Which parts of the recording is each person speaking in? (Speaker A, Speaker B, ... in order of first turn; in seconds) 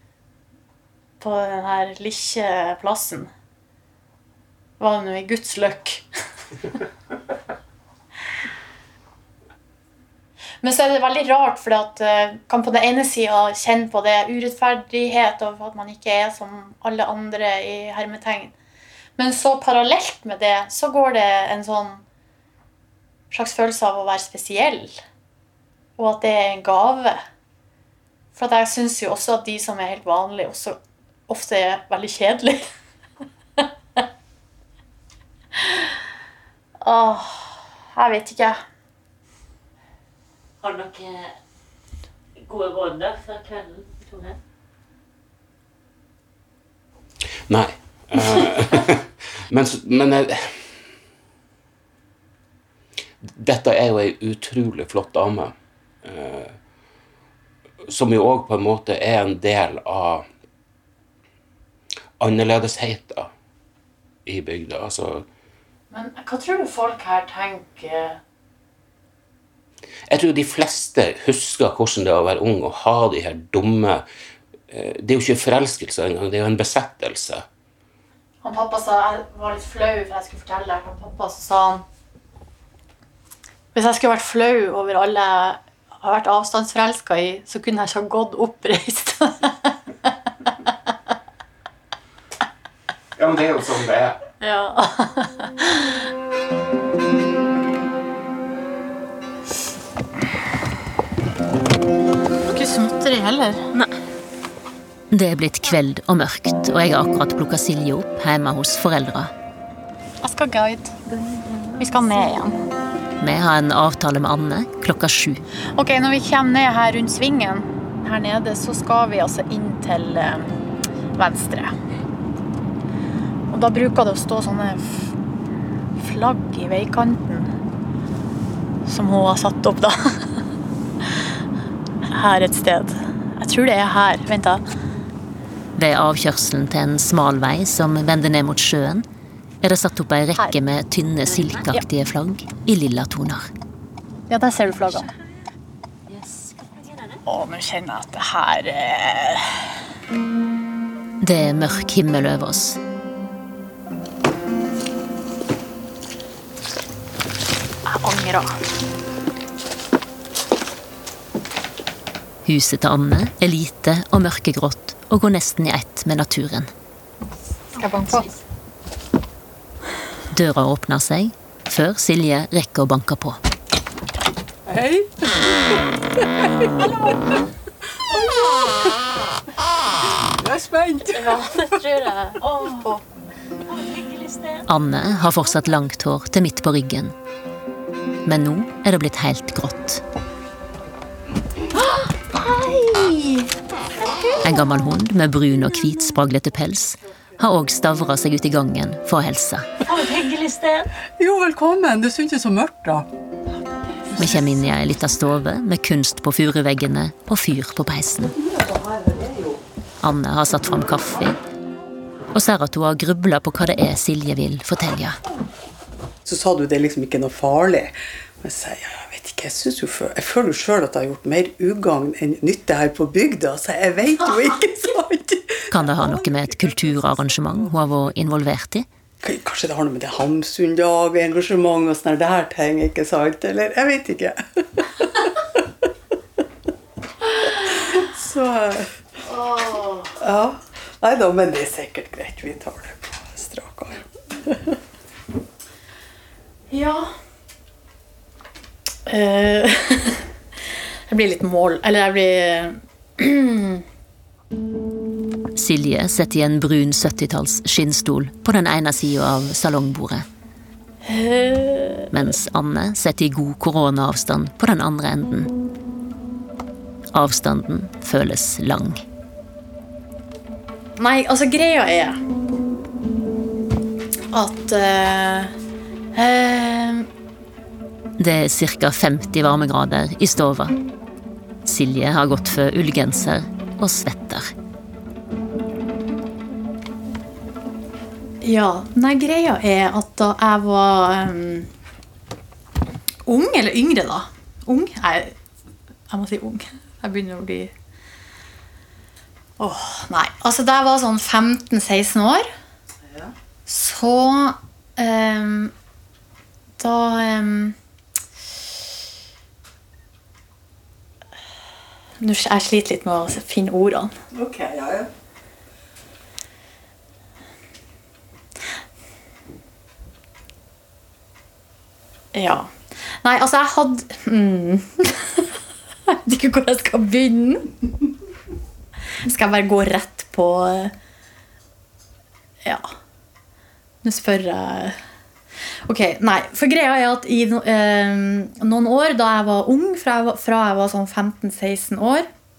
Speaker A: 1.2-3.3, 4.8-6.1, 10.6-18.5, 19.2-22.0, 23.3-25.0, 26.0-27.2, 28.3-32.6, 33.6-34.0, 35.5-36.0, 36.8-38.6, 65.9-68.2, 78.4-81.8, 83.7-89.7, 94.4-96.1, 102.4-103.7, 110.2-111.0, 111.7-112.6, 115.8-120.5, 121.1-121.7, 123.5-125.2, 126.0-127.5, 128.8-130.4, 131.0-131.3, 132.0-134.6, 144.3-145.1, 147.2-149.7, 157.8-158.6, 167.8-168.3, 181.1-182.5, 239.2-240.2, 246.7-247.1, 249.1-250.3, 251.1-253.8, 261.0-262.2, 271.0-272.2, 274.3-275.5, 276.1-277.1, 288.4-291.7, 293.2-295.4, 296.1-297.7, 299.6-302.5, 303.6-305.7, 306.8-307.8, 312.2-314.1, 322.3-327.7, 329.2-330.9, 334.0-335.0, 335.9-342.3
Speaker B: 40.6-41.3, 42.4-44.4, 146.1-146.5, 183.8-184.6, 199.9-200.9
Speaker C: 47.5-50.9, 53.2-56.6, 57.9-60.3, 62.2-63.3, 64.2-65.3, 70.1-74.0, 74.7-77.5, 93.2-94.2
Speaker D: 105.1-109.3, 113.2-115.4, 135.8-139.0, 139.6-143.5, 151.2-152.8, 162.4-166.7, 170.3-173.4, 184.7-187.1, 188.2-190.0, 194.4-199.7, 204.2-208.3, 210.0-211.4, 212.3-215.2, 225.7-228.9, 255.6-260.2, 262.1-265.5, 267.1-269.0, 278.2-280.7, 281.6-284.5
Speaker E: 174.7-177.4, 178.1-178.9, 180.0-181.8, 192.6-193.3, 201.2-203.1, 204.1-204.6, 208.2-209.6, 216.2-228.1, 229.2-235.6, 237.4-239.0, 240.2-244.8, 303.0-303.3, 314.3-315.1